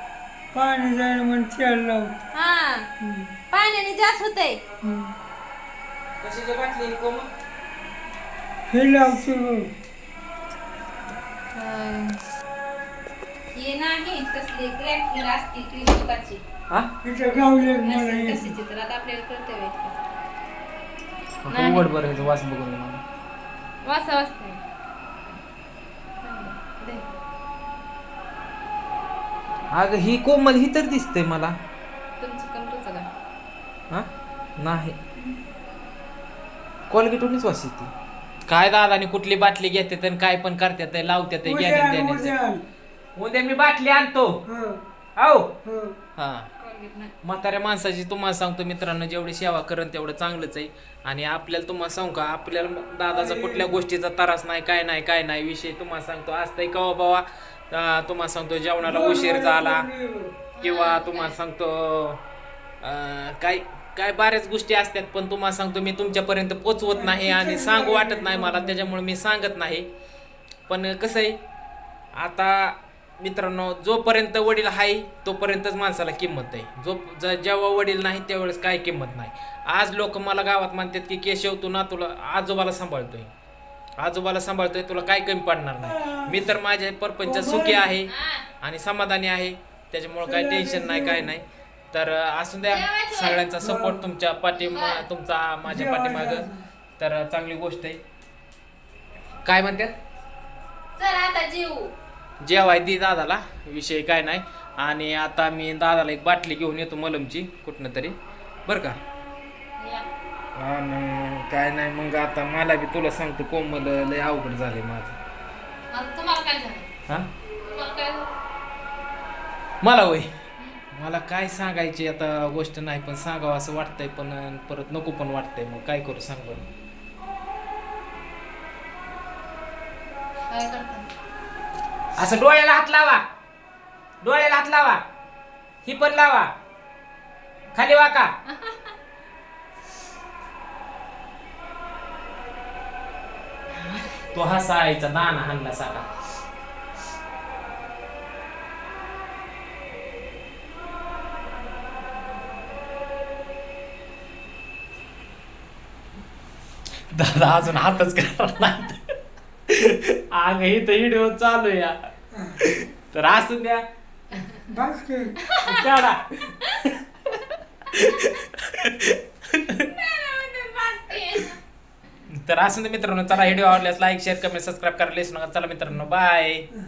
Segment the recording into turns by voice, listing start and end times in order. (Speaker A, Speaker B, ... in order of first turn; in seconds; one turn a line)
Speaker A: 0.5-2.1
Speaker B: 2.3-2.9
Speaker A: 3.0-3.3
Speaker B: 3.5-4.6
Speaker A: 4.8-5.1
Speaker C: 6.2-7.3
Speaker A: 8.7-9.7
Speaker B: 11.5-12.2
Speaker B: 13.5-16.4
Speaker A: 17.0-18.5
Speaker B: 17.8-20.0
Speaker C: 21.4-23.0
Speaker B: 21.5-21.9
Speaker B: 23.8-24.6
Speaker B: 26.2-27.2
Speaker C: 29.7-31.6
Speaker B: 32.2-33.1
Speaker C: 33.9-35.0
Speaker C: 36.9-37.9
Speaker C: 38.5-42.3
Speaker A: 41.4-42.6
Speaker C: 43.1-44.4
Speaker A: 44.5-44.8
Speaker C: 45.2-45.5
Speaker A: 45.6-45.9
Speaker C: 46.2-46.5
Speaker B: 46.6-47.1
Speaker C: 47.2-59.9
Speaker A: 53.1-53.8
Speaker A: 58.8-60.3
Speaker B: 60.5-61.4
Speaker C: 60.6-62.2
Speaker C: 62.8-69.9
Speaker A: 66.9-69.0
Speaker C: 70.7-71.4
Speaker C: 72.2-83.3
Speaker C: 84.0-88.1
Speaker A: 85.8-86.5
Speaker A: 87.2-87.9
Speaker B: 88.0-88.4
Speaker C: 88.6-96.5
Speaker A: 90.2-91.3
Speaker B: 92.7-93.4
Speaker A: 93.6-94.0
Speaker B: 94.6-95.0
Speaker A: 95.7-96.7
Speaker C: 97.0-98.0
Speaker C: 99.4-99.9
Speaker B: 101.0-101.9
Speaker C: 102.4-109.0
Speaker B: 109.8-110.0
Speaker C: 110.5-115.2
Speaker B: 115.9-116.9
Speaker B: 117.6-118.3
Speaker C: 119.8-120.3
Speaker C: 120.9-126.7
Speaker B: 130.5-131.1
Speaker C: 132.2-133.2
Speaker C: 134.2-135.0
Speaker C: 135.8-136.5
Speaker C: 137.7-138.3
Speaker B: 138.5-138.9
Speaker B: 143.8-144.2
Speaker C: 144.3-146.1
Speaker C: 157.1-159.0
Speaker C: 159.7-162.0
Speaker A: 162.3-162.6
Speaker C: 162.6-163.8
Speaker A: 164.7-165.3
Speaker B: 165.4-165.8
Speaker C: 165.6-169.9
Speaker B: 169.8-171.6
Speaker C: 172.3-176.7